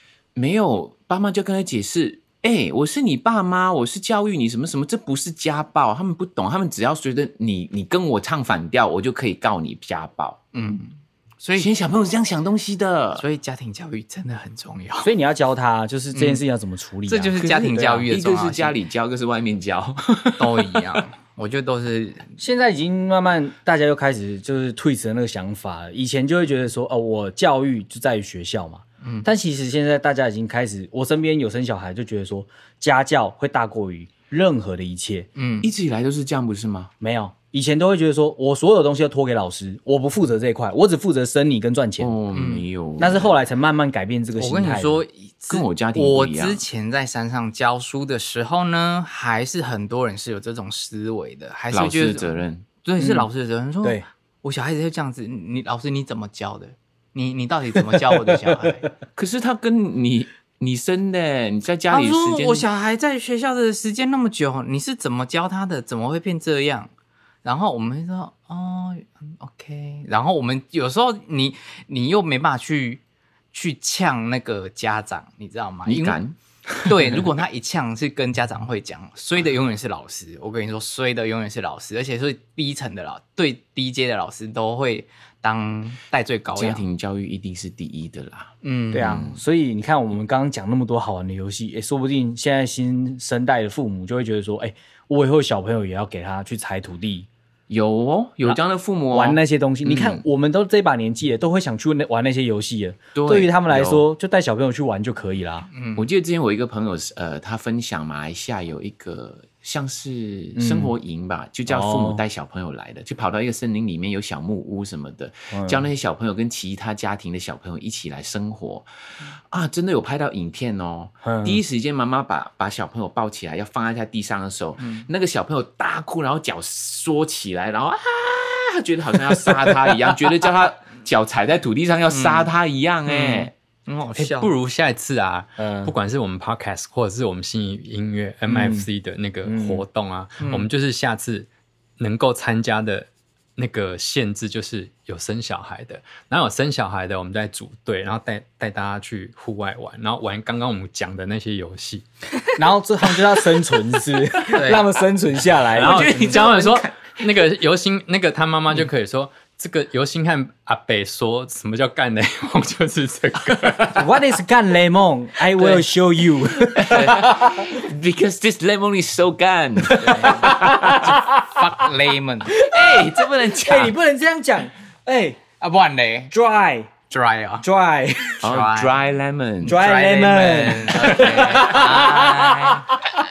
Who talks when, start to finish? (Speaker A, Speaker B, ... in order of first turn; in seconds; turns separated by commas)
Speaker A: 0.3-10.4, Speaker B: 10.5-11.7, Speaker A: 11.6-13.2, Speaker B: 13.2-15.1, Speaker C: 15.0-17.5, Speaker B: 16.1-16.4, Speaker B: 17.1-18.8, Speaker A: 17.4-20.8, Speaker B: 20.4-22.3, Speaker C: 22.4-35.3, Speaker B: 29.0-29.3, Speaker B: 35.4-35.7, Speaker A: 35.6-36.9, Speaker C: 37.0-42.2, Speaker A: 42.0-43.3, Speaker B: 42.3-42.6, Speaker C: 43.0-45.0, Speaker B: 44.4-58.9, Speaker A: 45.5-46.6, Speaker A: 51.7-52.6, Speaker C: 53.0-53.3, Speaker A: 59.1-62.7, Speaker B: 61.9-66.9, Speaker B: 67.4-76.2, Speaker A: 75.8-77.3, Speaker B: 76.8-86.8, Speaker A: 86.5-89.4, Speaker B: 88.6-89.3, Speaker C: 88.9-97.3, Speaker A: 97.7-100.2, Speaker C: 99.1-105.7, Speaker A: 103.1-104.0, Speaker B: 105.7-106.1, Speaker A: 106.0-118.9, Speaker C: 110.5-110.9, Speaker C: 111.7-112.2, Speaker C: 115.5-115.9, Speaker A: 119.5-133.5, Speaker C: 121.2-121.6, Speaker B: 124.8-125.1, Speaker C: 129.5-129.9, Speaker B: 132.1-132.5, Speaker B: 133.1-134.5, Speaker D: 134.2-141.5, Speaker C: 135.6-135.9, Speaker C: 138.5-138.9, Speaker C: 139.4-139.8, Speaker B: 140.4-140.7, Speaker D: 142.0-152.0, Speaker C: 152.6-156.2, Speaker B: 154.5-154.9, Speaker D: 155.7-164.2, Speaker A: 155.8-157.2, Speaker C: 163.9-167.8, Speaker B: 165.6-165.8, Speaker A: 166.8-171.1, Speaker B: 166.9-167.1, Speaker C: 169.8-171.6, Speaker B: 170.0-172.6, Speaker C: 172.5-175.4, Speaker A: 172.6-173.9, Speaker B: 175.6-176.3, Speaker C: 176.3-176.9, Speaker B: 177.1-177.6, Speaker C: 177.6-178.5, Speaker B: 178.4-178.9, Speaker A: 178.4-179.8, Speaker B: 179.6-182.9, Speaker C: 179.6-182.7, Speaker A: 181.1-181.9